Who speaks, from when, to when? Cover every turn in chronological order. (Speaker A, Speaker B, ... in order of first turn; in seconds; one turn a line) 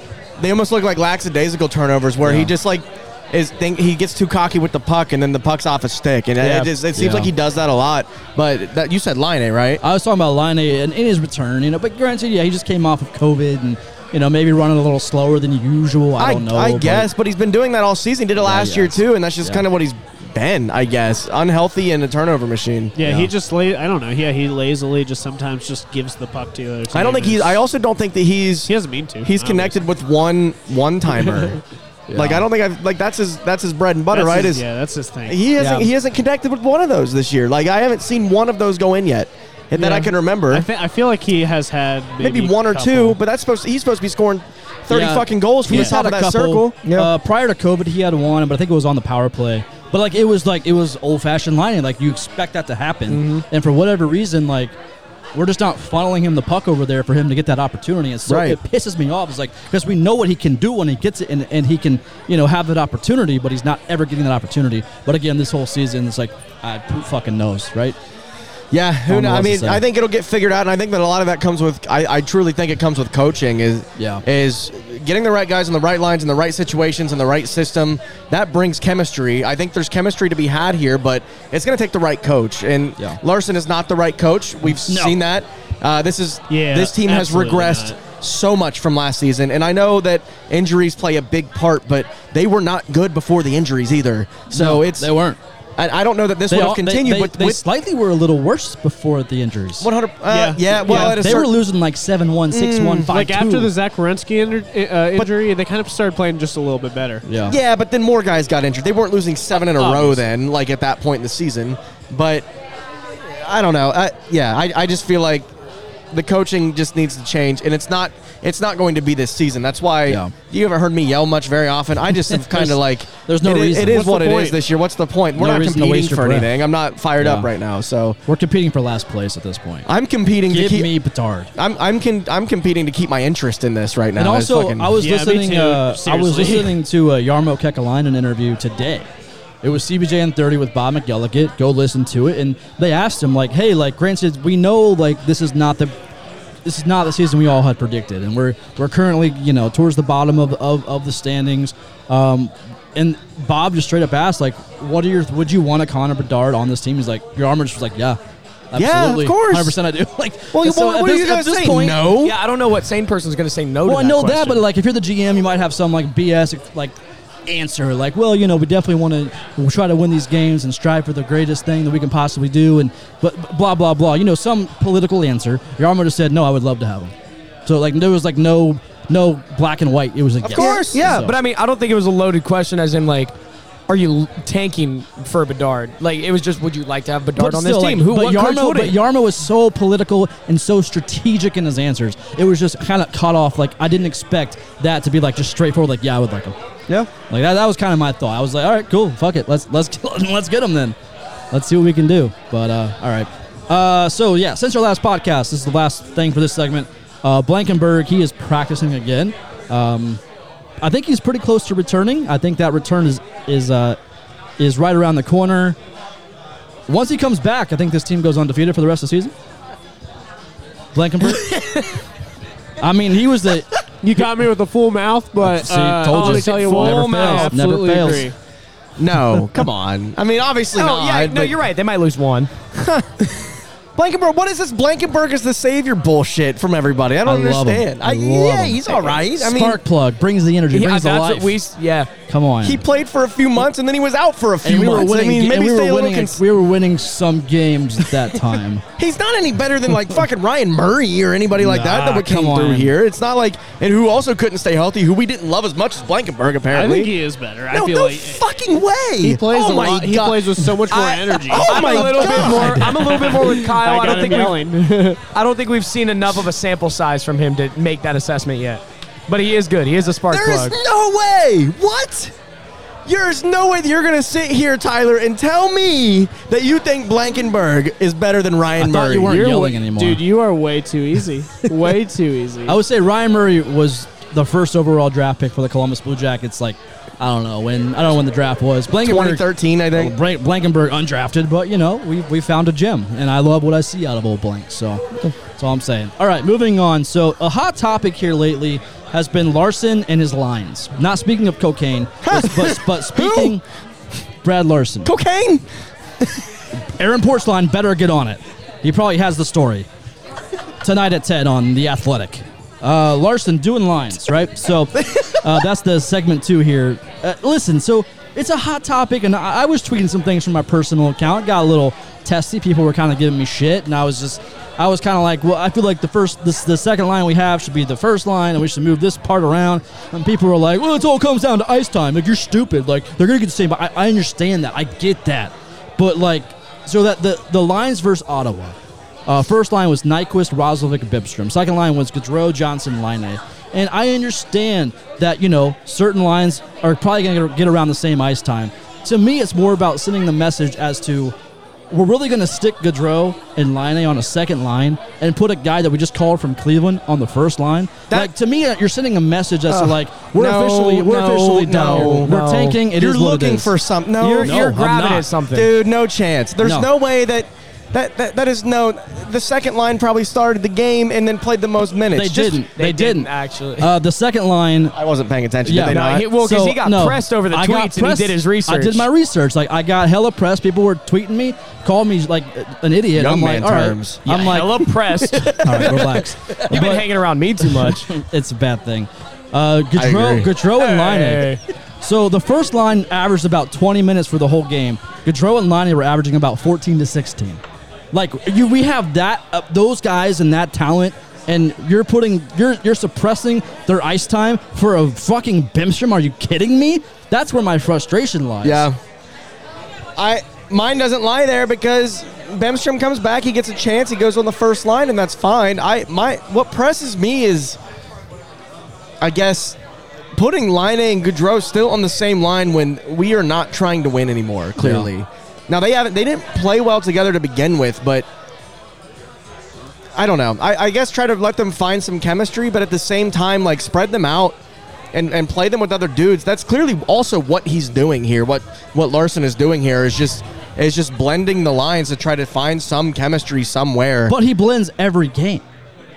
Speaker A: 0.4-9.8
Speaker B: 2.2-2.5
Speaker B: 6.8-7.3
Speaker B: 9.8-17.1
Speaker A: 16.2-22.9
Speaker B: 18.4-19.6
Speaker C: 23.0-27.6
Speaker B: 23.0-23.3
Speaker A: 26.9-28.7
Speaker C: 28.7-29.8
Speaker A: 29.2-31.6
Speaker B: 32.1-32.5
Speaker A: 32.1-34.6
Speaker C: 34.1-35.5
Speaker A: 35.3-40.7
Speaker D: 35.6-35.9
Speaker C: 39.8-43.2
Speaker A: 42.2-46.8
Speaker B: 44.9-54.8
Speaker D: 46.8-47.1
Speaker D: 53.1-53.5
Speaker B: 55.3-68.0
Speaker A: 58.3-58.6
Speaker A: 68.7-95.1
Speaker B: 69.1-69.8
Speaker B: 74.0-74.2
Speaker B: 84.8-85.2
Speaker C: 86.5-88.0
Speaker B: 94.5-95.4
Speaker A: 95.8-97.6
Speaker B: 96.5-99.9
Speaker A: 99.8-101.6
Speaker C: 100.3-101.4
Speaker B: 100.9-103.7
Speaker A: 102.5-103.1
Speaker C: 103.1-107.2
Speaker B: 107.2-107.6
Speaker A: 107.5-112.5
Speaker C: 109.5-110.2
Speaker A: 113.2-115.5
Speaker A: 116.1-128.2
Speaker B: 120.1-120.3
Speaker B: 122.3-124.1
Speaker C: 123.9-124.6
Speaker B: 125.4-126.5
Speaker B: 127.2-127.5
Speaker B: 128.3-129.9
Speaker A: 129.9-130.9
Speaker B: 130.5-131.5
Speaker A: 131.6-134.9
Speaker B: 134.2-139.1
Speaker C: 135.0-136.8
Speaker B: 139.6-145.9
Speaker B: 146.7-158.2
Speaker B: 158.7-162.1
Speaker A: 158.7-159.8
Speaker A: 160.5-162.4
Speaker D: 162.1-164.6
Speaker B: 163.8-167.0
Speaker B: 167.5-177.1
Speaker B: 177.7-181.3
Speaker A: 180.4-181.2
Speaker D: 180.6-183.3
Speaker D: 183.9-189.0
Speaker B: 187.4-196.6
Speaker B: 197.3-201.0
Speaker B: 201.5-210.2
Speaker B: 210.8-214.0
Speaker B: 214.6-215.8
Speaker B: 216.9-219.3
Speaker B: 220.9-221.6
Speaker B: 222.8-223.7
Speaker C: 224.0-228.3
Speaker B: 225.4-228.3
Speaker D: 226.1-227.6
Speaker A: 229.0-231.6
Speaker D: 230.8-232.5
Speaker A: 232.8-233.3
Speaker A: 234.0-239.8
Speaker B: 237.2-241.6
Speaker D: 240.7-242.1
Speaker B: 242.3-242.8
Speaker A: 242.6-246.4
Speaker B: 244.6-248.8
Speaker A: 249.0-257.1
Speaker B: 251.6-252.9
Speaker C: 256.7-258.5
Speaker A: 257.7-263.2
Speaker C: 259.2-265.2
Speaker D: 261.5-264.6
Speaker D: 265.3-270.8
Speaker A: 270.3-272.3
Speaker A: 273.1-279.4
Speaker B: 278.8-280.2
Speaker C: 279.3-282.8
Speaker B: 282.7-295.0
Speaker A: 288.9-290.1
Speaker B: 295.6-303.6
Speaker A: 302.2-303.6
Speaker B: 304.4-305.1
Speaker A: 305.1-305.6
Speaker B: 306.9-309.9
Speaker B: 310.8-351.4
Speaker B: 351.9-363.7
Speaker A: 359.7-364.7
Speaker D: 361.9-362.8
Speaker D: 364.2-365.7
Speaker B: 364.4-365.3
Speaker A: 365.5-372.6
Speaker B: 366.6-366.9
Speaker B: 372.1-375.0
Speaker D: 372.8-373.9
Speaker A: 374.9-376.3
Speaker B: 375.6-384.9
Speaker D: 375.8-379.1
Speaker A: 383.1-384.5
Speaker D: 384.3-388.1
Speaker A: 385.3-386.1
Speaker B: 385.6-387.1
Speaker B: 387.7-408.9
Speaker A: 389.9-390.5
Speaker D: 390.8-391.6
Speaker A: 408.6-409.0
Speaker A: 410.2-417.8
Speaker A: 419.2-419.8
Speaker A: 420.3-428.3
Speaker B: 424.8-425.1
Speaker A: 430.2-434.6
Speaker A: 435.1-444.4
Speaker B: 444.3-445.6